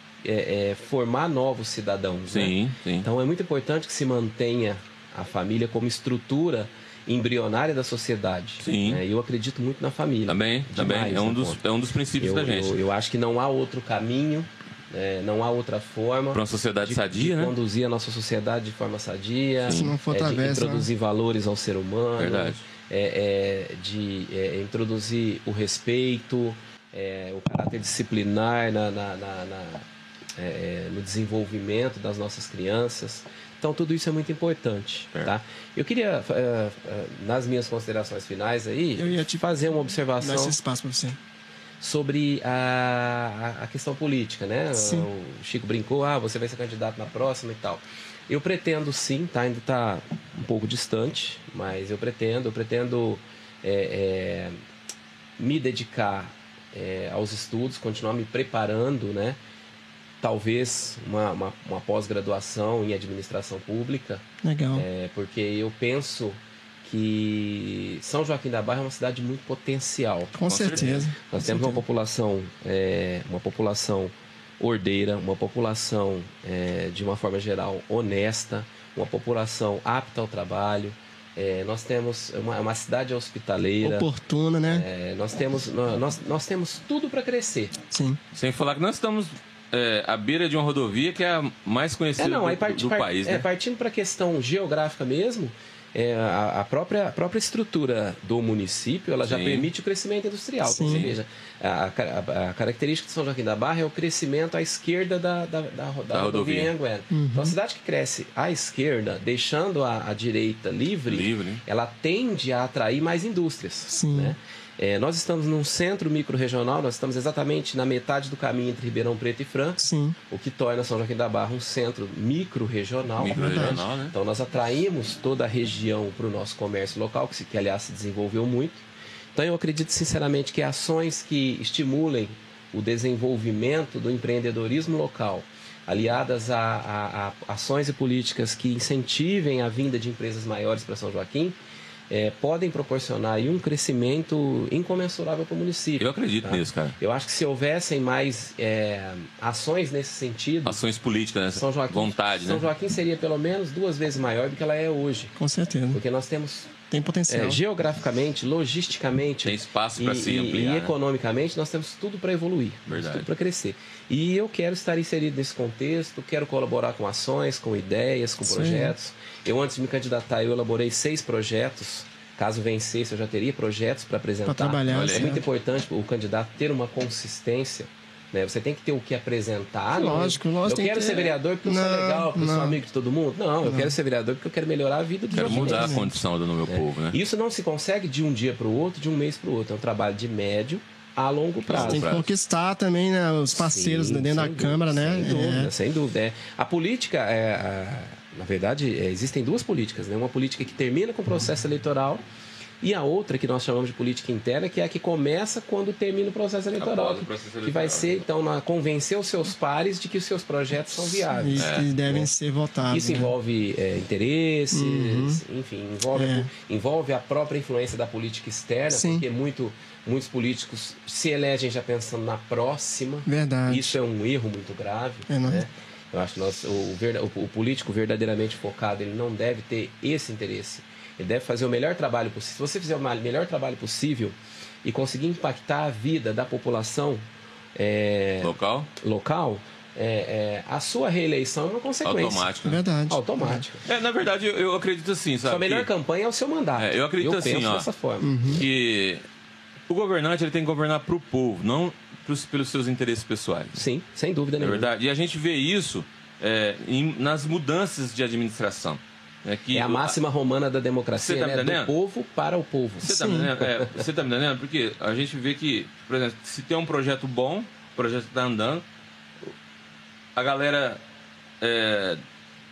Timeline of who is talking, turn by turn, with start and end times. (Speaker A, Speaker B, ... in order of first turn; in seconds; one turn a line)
Speaker A: 0.2-11.6
Speaker B: 2.3-3.1
Speaker B: 8.6-9.0
Speaker B: 10.3-12.8
Speaker A: 12.2-29.9
Speaker B: 16.3-17.5
Speaker B: 19.7-19.9
Speaker C: 19.7-20.9
Speaker B: 22.2-22.6
Speaker A: 30.4-40.6
Speaker C: 39.0-39.5
Speaker C: 40.2-41.2
Speaker A: 41.8-54.6
Speaker C: 44.8-45.1
Speaker A: 55.4-59.4
Speaker A: 60.2-84.1
Speaker C: 64.4-64.8
Speaker C: 70.3-71.8
Speaker B: 70.5-71.1
Speaker C: 83.8-84.9
Speaker A: 84.7-87.8
Speaker C: 87.9-88.2
Speaker B: 88.3-93.5
Speaker A: 92.2-128.8
Speaker B: 99.2-99.7
Speaker C: 100.7-101.1
Speaker B: 100.8-101.2
Speaker B: 106.1-106.7
Speaker C: 107.1-107.6
Speaker B: 111.1-111.6
Speaker C: 113.9-114.3
Speaker C: 119.8-120.2
Speaker B: 123.2-124.1
Speaker C: 123.3-123.8
Speaker A: 129.3-141.6
Speaker A: 142.1-150.8
Speaker B: 146.0-147.0
Speaker B: 150.7-152.6
Speaker A: 151.5-155.3
Speaker C: 155.4-156.0
Speaker A: 155.9-156.7
Speaker C: 156.9-157.6
Speaker A: 157.3-186.1
Speaker B: 159.4-160.9
Speaker B: 162.9-163.3
Speaker C: 168.4-168.9
Speaker C: 174.5-175.4
Speaker B: 174.9-175.3
Speaker C: 179.9-182.8
Speaker C: 183.6-184.0
Speaker B: 185.3-187.2
Speaker C: 185.4-186.2
Speaker A: 186.7-192.1
Speaker B: 191.7-192.3
Speaker C: 191.8-195.7
Speaker A: 193.5-202.2
Speaker A: 202.8-212.3
Speaker B: 206.8-208.2
Speaker C: 211.3-213.3
Speaker B: 211.6-211.9
Speaker A: 212.9-237.2
Speaker C: 214.7-215.4
Speaker C: 216.1-216.5
Speaker C: 218.9-219.2
Speaker C: 223.3-223.9
Speaker C: 225.3-225.7
Speaker A: 237.8-242.5
Speaker B: 238.4-238.9
Speaker B: 242.1-242.8
Speaker C: 242.6-243.7
Speaker A: 243.1-243.8
Speaker B: 243.8-245.9
Speaker A: 245.5-248.6
Speaker B: 246.8-247.9
Speaker C: 248.2-248.7
Speaker B: 248.5-249.2
Speaker B: 249.9-253.8
Speaker A: 253.7-254.9
Speaker B: 254.6-260.2
Speaker A: 259.7-264.0
Speaker B: 261.1-261.9
Speaker B: 263.0-268.8
Speaker C: 263.0-263.5
Speaker B: 270.4-271.0
Speaker B: 271.6-272.2